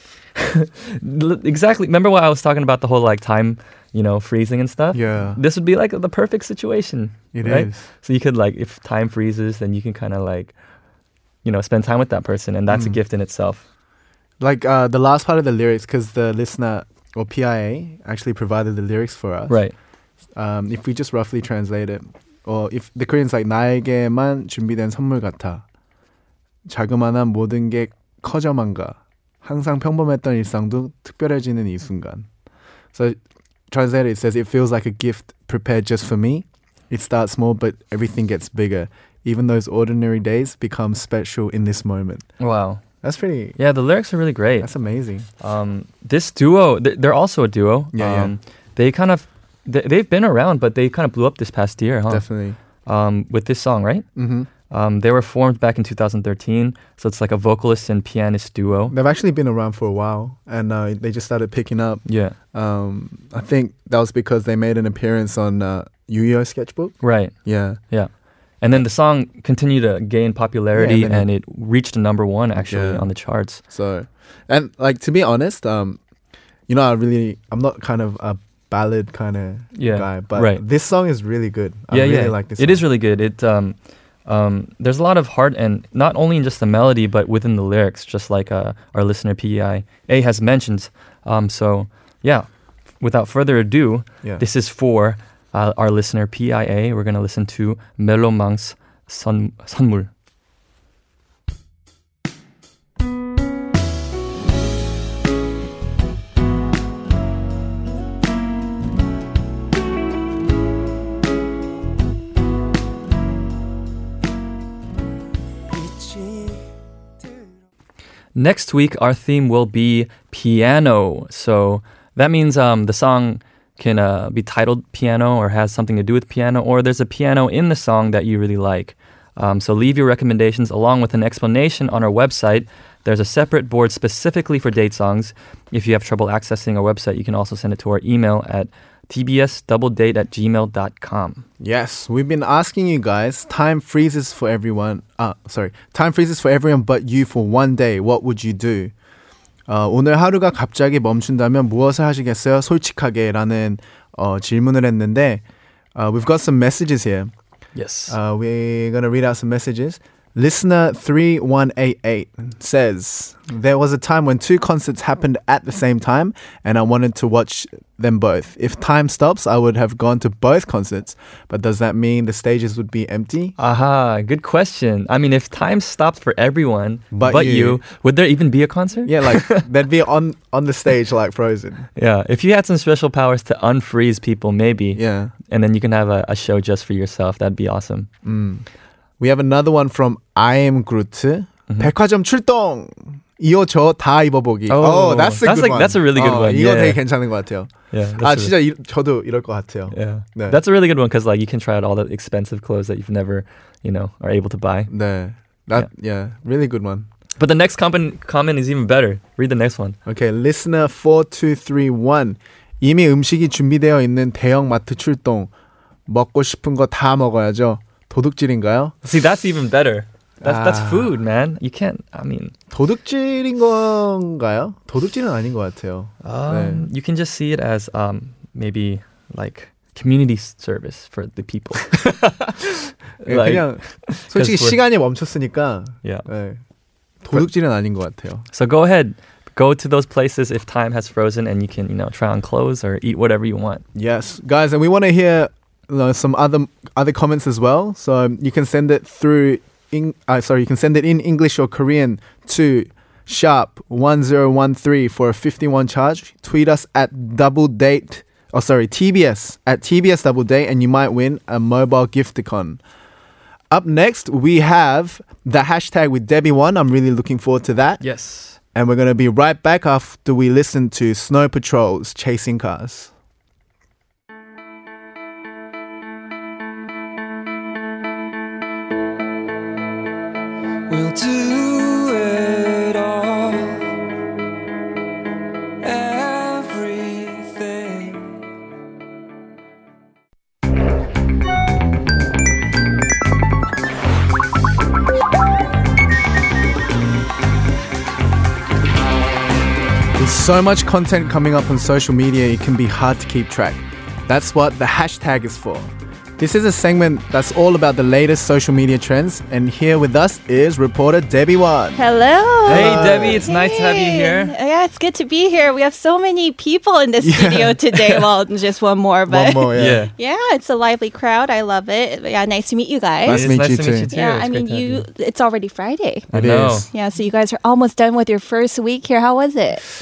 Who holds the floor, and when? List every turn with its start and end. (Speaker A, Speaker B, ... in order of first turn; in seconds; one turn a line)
Speaker A: 0.3-10.5
Speaker B: 4.9-5.4
Speaker B: 7.3-7.8
Speaker A: 11.4-13.6
Speaker B: 12.7-13.0
Speaker B: 14.4-19.6
Speaker A: 19.5-19.7
Speaker B: 20.3-25.6
Speaker B: 26.6-32.3
Speaker B: 32.9-33.2
Speaker B: 33.7-42.2
Speaker A: 42.4-42.8
Speaker B: 43.0-43.6
Speaker A: 43.6-44.7
Speaker B: 44.6-45.3
Speaker A: 45.4-52.2
Speaker B: 47.9-48.3
Speaker B: 52.1-52.6
Speaker A: 52.9-54.1
Speaker B: 54.2-54.5
Speaker A: 54.7-58.9
Speaker B: 58.9-67.8
Speaker A: 62.1-62.3
Speaker A: 67.0-67.3
Speaker A: 68.6-73.6
Speaker B: 70.7-71.3
Speaker B: 72.6-73.1
Speaker B: 73.7-76.0
Speaker B: 76.7-82.8
Speaker A: 79.8-80.6
Speaker A: 81.9-83.7
Speaker A: 84.2-92.5
Speaker A: 93.0-100.1
Speaker C: 115.9-116.4
Speaker A: 118.3-141.4
Speaker B: 141.6-148.9
Speaker B: 149.7-155.4
Speaker B: 155.9-157.3
Speaker A: 157.8-158.2
Speaker B: 158.1-173.5
Speaker A: 173.6-179.6
Speaker B: 177.1-177.8
Speaker B: 179.0-181.9
Speaker A: 181.9-188.1
Speaker B: 184.9-185.3
Speaker B: 188.2-188.7
Speaker B: 189.2-200.6
Speaker A: 194.7-197.0
Speaker A: 197.9-198.5
Speaker A: 199.9-204.9
Speaker B: 204.9-207.1
Speaker A: 207.4-210.0
Speaker B: 210.1-215.5
Speaker B: 216.1-218.9
Speaker A: 219.0-222.5
Speaker B: 220.4-221.1
Speaker B: 222.7-226.9
Speaker A: 226.2-234.8
Speaker B: 233.2-236.6
Speaker B: 237.2-238.4
Speaker A: 238.5-243.8
Speaker B: 243.9-262.8
Speaker B: 263.7-268.0
Speaker A: 268.0-268.6
Speaker B: 268.7-273.1
Speaker C: 280.9-283.9
Speaker C: 285.8-288.4
Speaker B: 300.1-312.0
Speaker D: 311.9-323.5
Speaker B: 312.6-313.4
Speaker A: 312.7-314.5
Speaker B: 317.2-317.8
Speaker B: 319.3-320.1
Speaker A: 319.7-320.1
Speaker B: 323.2-324.1
Speaker A: 323.3-325.1
Speaker D: 324.1-326.3
Speaker A: 326.3-326.9
Speaker B: 326.3-326.9
Speaker D: 326.9-329.8